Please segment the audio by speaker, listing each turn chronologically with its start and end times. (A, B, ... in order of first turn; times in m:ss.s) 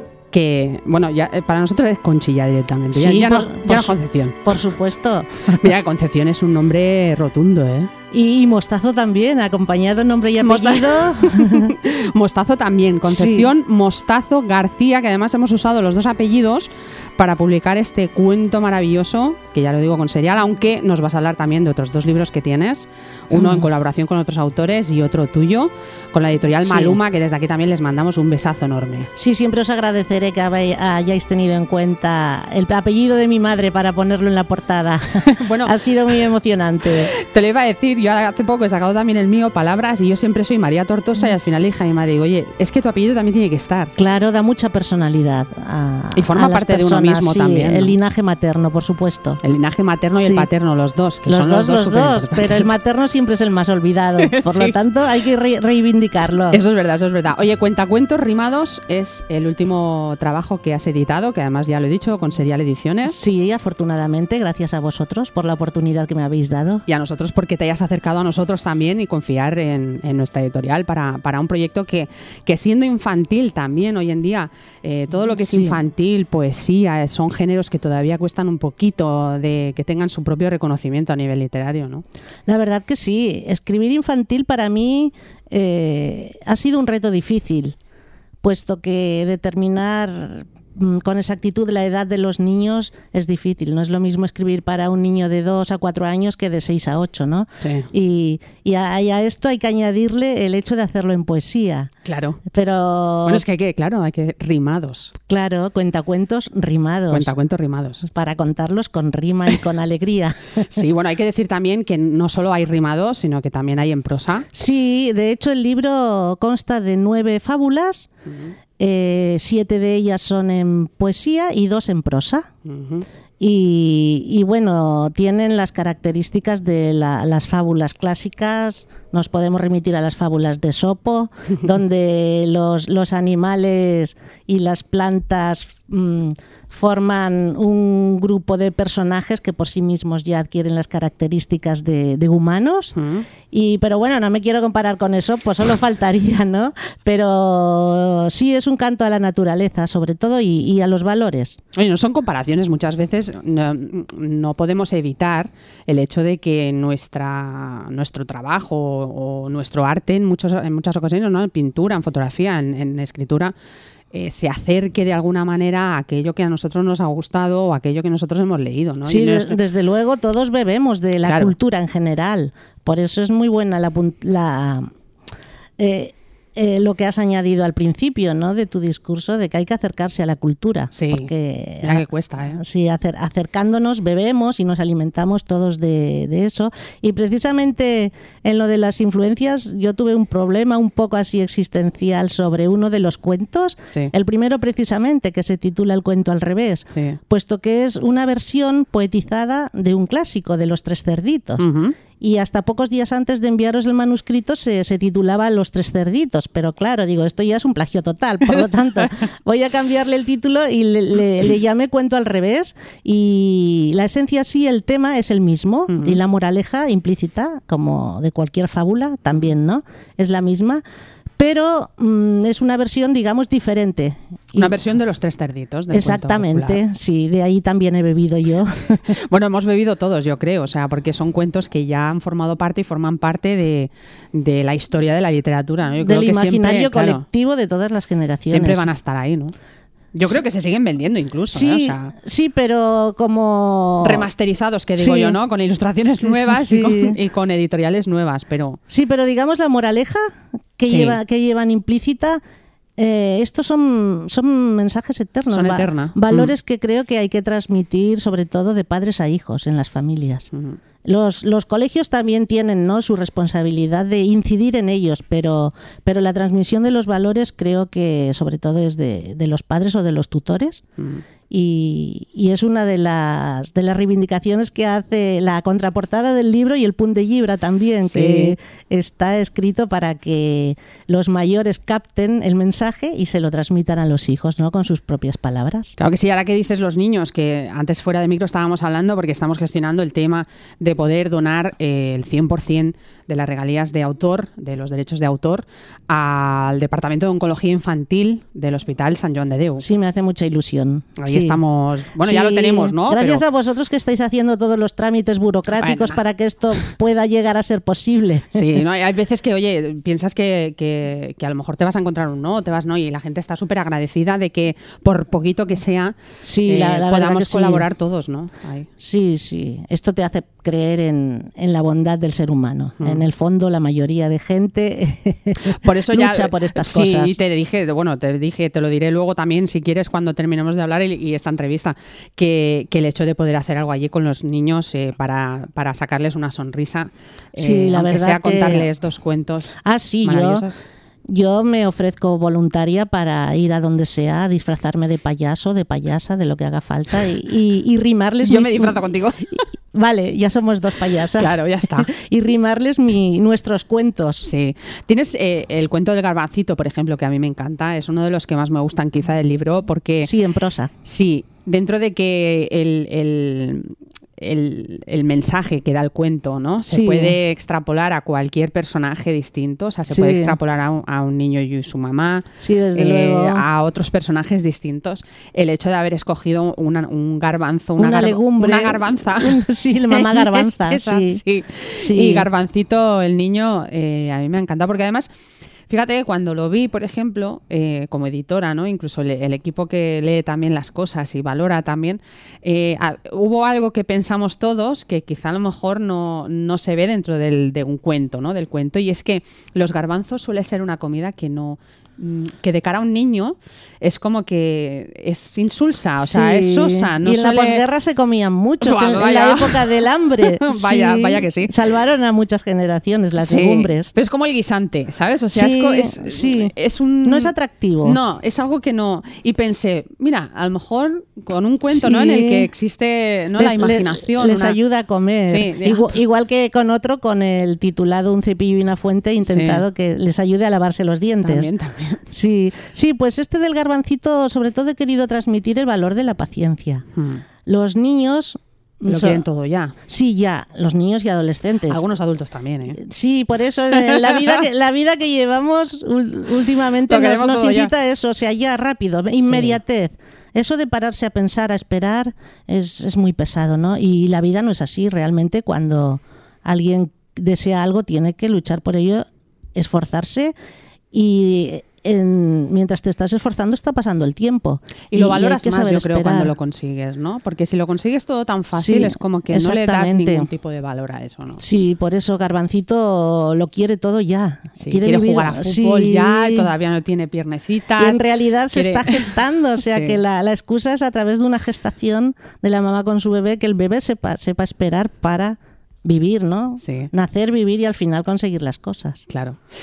0:00.3-0:04.5 A
0:02.9-0:05.7 B
0:05.5-0:07.9 A
0:08.1-0:11.7 B
0:10.4-0:29.1 A
0:13.1-0:13.5 B
0:23.3-0:23.7 B
0:26.5-0:27.0 B
0:29.2-0:37.1 B
0:35.3-0:35.8 A
0:37.1-0:43.9 A
0:44.0-0:49.4 B
0:46.1-0:48.0 A
0:49.4-0:52.7 A
0:50.1-0:50.5 B
0:51.2-0:56.6 B
0:54.2-0:54.8 A
0:56.5-1:03.2 A
1:03.0-1:06.8 B
1:06.9-1:22.0 A
1:15.3-1:15.8 B
1:22.5-1:27.8 B
1:28.4-1:41.9 B
1:37.6-1:37.9 A
1:42.0-1:42.4 A
1:42.4-1:43.4 B
1:43.2-1:45.1 A
1:45.3-1:47.3 B
1:47.1-1:48.1 A
1:48.0-1:50.7 B
1:50.7-1:54.5 A
1:54.5-1:58.1 B
1:58.2-1:58.6 A
1:58.8-2:02.5 B
2:02.6-2:03.0 A
2:03.4-2:31.6 B
2:22.9-2:23.3 A
2:31.7-2:43.5 A
2:44.1-2:49.6 A
2:49.0-2:54.9 B
2:51.2-2:51.5 A
2:55.8-3:21.6 B
3:00.9-3:02.6 A
3:16.9-3:17.2 A
3:21.6-3:22.0 A
3:22.2-3:40.8 B
3:35.9-3:36.2 A
3:41.4-3:44.7 B
3:44.6-3:46.8 A
3:45.9-3:49.1 B
3:49.1-3:57.2 A
3:56.0-3:58.8 B
3:58.5-3:59.5 A
4:00.1-4:02.1 A
4:01.5-4:04.3 B
4:04.0-4:08.8 A
4:05.0-4:05.4 B
4:06.2-4:07.2 B
4:08.9-4:12.4 B
4:10.9-4:11.2 A
4:13.0-4:20.5 B
4:15.5-4:16.5 A
4:20.5-4:20.8 A
4:21.0-4:30.8 B
4:31.0-4:31.2 A
4:31.5-4:45.9 B
4:38.0-4:38.6 A
4:46.0-4:59.8 A
4:59.8-5:01.6 B
5:01.2-5:03.4 A
5:02.2-5:08.8 B
5:05.8-5:06.2 A
5:08.5-5:18.9 A
5:16.4-5:17.8 B
5:19.0-5:27.4 B
5:23.0-5:23.2 A
5:25.6-5:40.7 A
5:37.6-5:38.9 B
5:39.8-5:40.6 B
5:41.2-5:49.0 B
5:48.4-5:49.6 A
5:49.9-5:54.5 B
5:51.3-5:52.1 A
5:54.4-6:00.3 A
6:00.2-6:00.9 B
6:01.0-6:25.3 A
6:06.9-6:07.4 B
6:10.1-6:10.6 B
6:12.6-6:13.6 B
6:18.0-6:21.4 B
6:22.0-6:22.4 B
6:25.9-6:47.8 A
6:46.2-6:54.1 B
6:48.8-6:51.7 A
6:53.4-6:57.5 A
6:55.5-6:58.2 B
6:58.0-7:04.8 A
7:01.9-7:02.7 B
7:03.6-7:11.7 B
7:05.4-7:06.1 A
7:09.4-7:09.8 A
7:11.4-7:12.2 A
7:12.3-7:17.0 B
7:17.2-7:17.4 A
7:17.6-7:19.4 B
7:19.0-7:19.9 A
7:20.0-7:22.0 B
7:21.9-7:23.0 A
7:23.0-7:40.5 B
7:24.0-7:24.3 A
7:27.1-7:27.9 A
7:29.4-7:29.8 A
7:41.1-7:46.5 B
7:45.1-7:51.6 A
7:48.8-7:50.5 B
7:51.6-7:56.7 B
7:54.8-8:00.2 A
7:58.0-8:09.2 B
8:06.8-8:07.1 A
8:09.3-8:09.6 A